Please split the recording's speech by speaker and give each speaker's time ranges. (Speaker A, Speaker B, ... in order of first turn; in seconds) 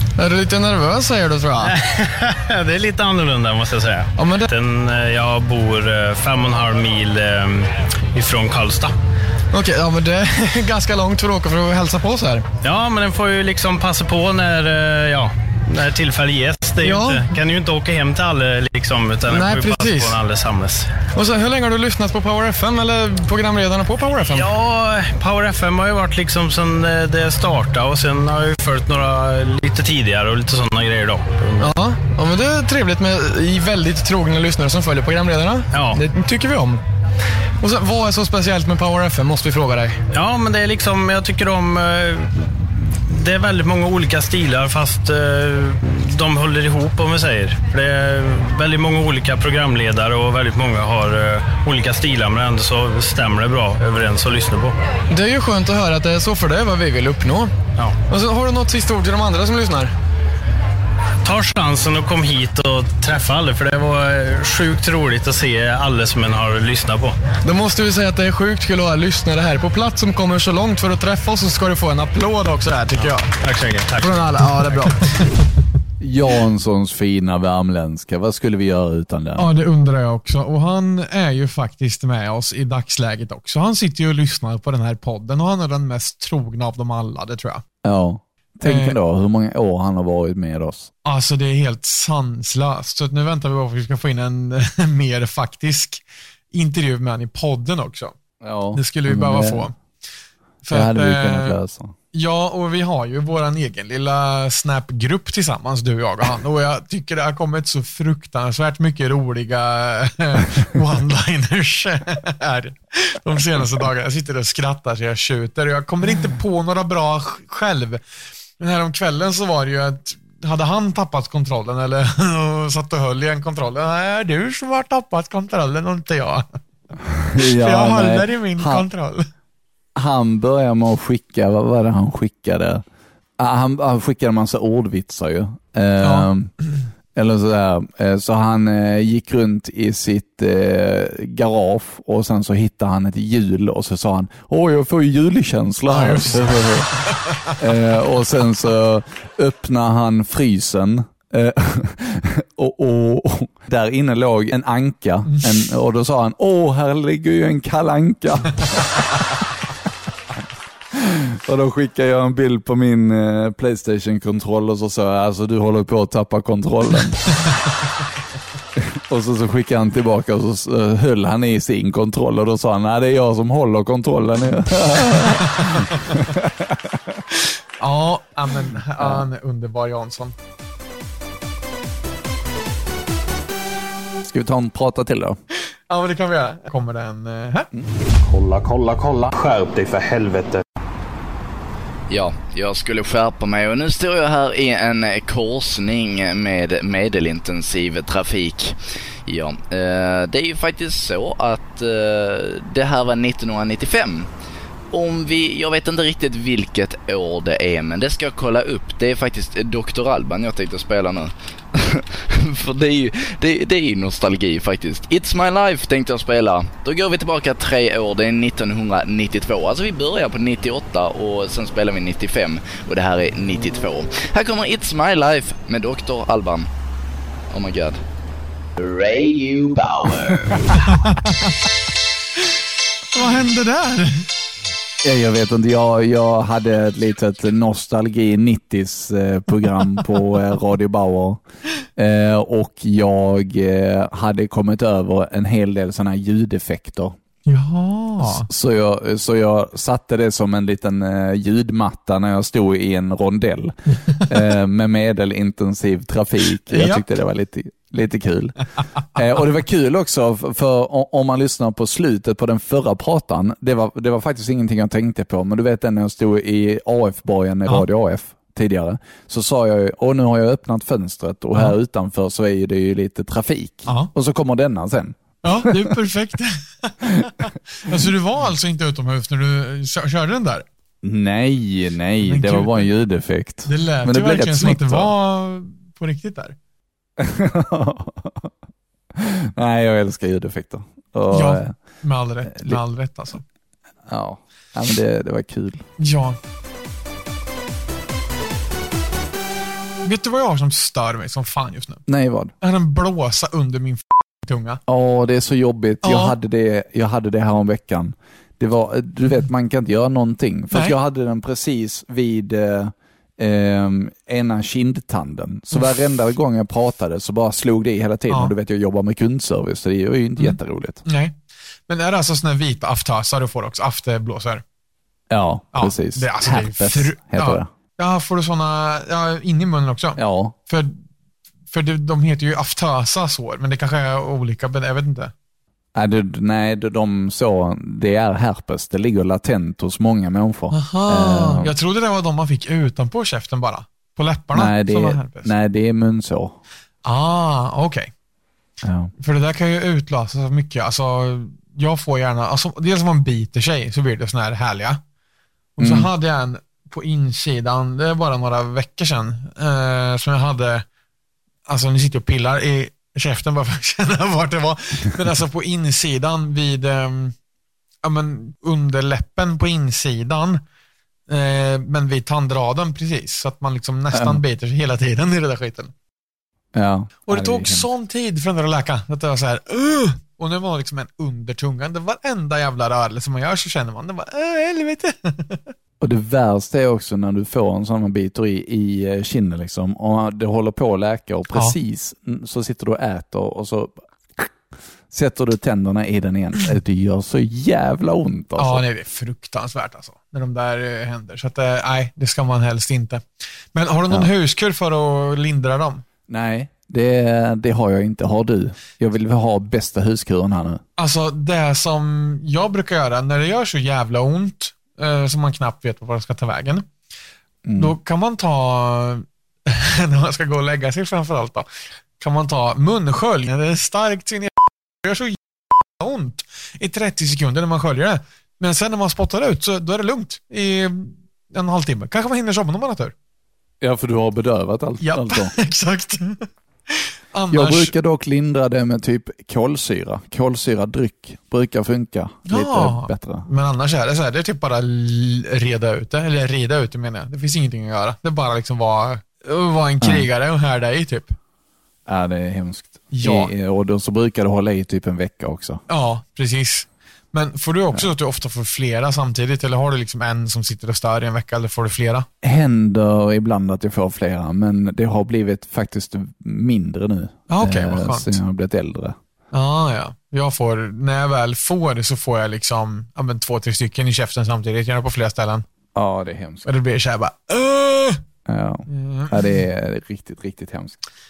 Speaker A: 0.2-1.7, 4.2-4.5, 9.5-12.4, 16.8-17.4, 19.3-20.2, 21.1-24.5, 31.6-36.8, 37.6-40.0, 55.1-57.5, 58.1-59.9, 67.4-73.3, 74.0-75.1
Speaker B: 1.6-8.9, 12.6-21.0, 24.3-31.7, 35.7-36.0, 40.1-54.7, 61.2-67.2, 73.0-74.4
Speaker C: 76.0-79.5, 87.8-90.9, 98.4-99.7, 100.7-101.9, 127.0-128.8, 129.9-132.8, 133.4-136.5, 137.1-146.9, 147.5-158.9, 160.9-167.2, 168.8-177.2, 179.0-179.2, 184.3-185.4, 235.0-241.4, 241.9-247.2, 248.2-275.9, 281.0-285.1, 287.2-288.5, 289.1-291.7, 292.5-292.8, 294.1-295.8, 302.1-302.5, 304.9-321.0, 325.3-327.7, 330.2-330.5, 335.9-341.7, 344.5-346.6, 348.8-349.1, 355.8-356.1, 374.1-374.4, 376.7-377.9, 386.0-394.5, 395.1-398.8, 406.3-410.8, 417.6-417.9, 433.8-435.5, 437.5-443.4, 450.0-450.3, 452.1-455.8, 462.4-469.2, 475.9-476.7, 478.4-481.0
Speaker D: 79.3-87.6, 88.6-89.0, 91.0-98.2, 98.7-99.8, 100.6-101.6, 102.1-118.0, 118.6-126.6, 127.3-129.2, 136.0-136.3, 145.9-147.6, 175.4-176.2, 177.3-180.3, 185.9-187.7, 230.8-231.5, 233.1-234.3, 247.4-248.5, 256.7-257.0, 275.4-280.6, 282.2-282.9, 283.6-286.6, 291.3-293.4, 296.0-296.4, 300.0-302.0, 302.6-304.8, 306.0-306.4, 318.3-318.5, 320.4-321.4, 321.9-324.6, 325.7-331.0, 331.7-335.3, 340.7-345.5, 347.0-348.1, 349.2-355.0, 355.8-360.8, 361.7-367.3, 368.0-370.6, 371.3-375.9, 377.3-385.7, 398.6-403.2, 403.7-406.0, 411.0-416.9, 417.8-425.4, 426.0-433.1, 435.0-437.9, 442.5-451.4, 453.1-453.5, 455.9-462.2, 467.5-468.4, 469.5-475.6, 476.6-478.2, 478.9-479.6
Speaker E: 188.2-190.6
Speaker F: 192.1-198.7, 199.2-204.3, 204.9-226.7, 227.5-228.0, 228.8-230.6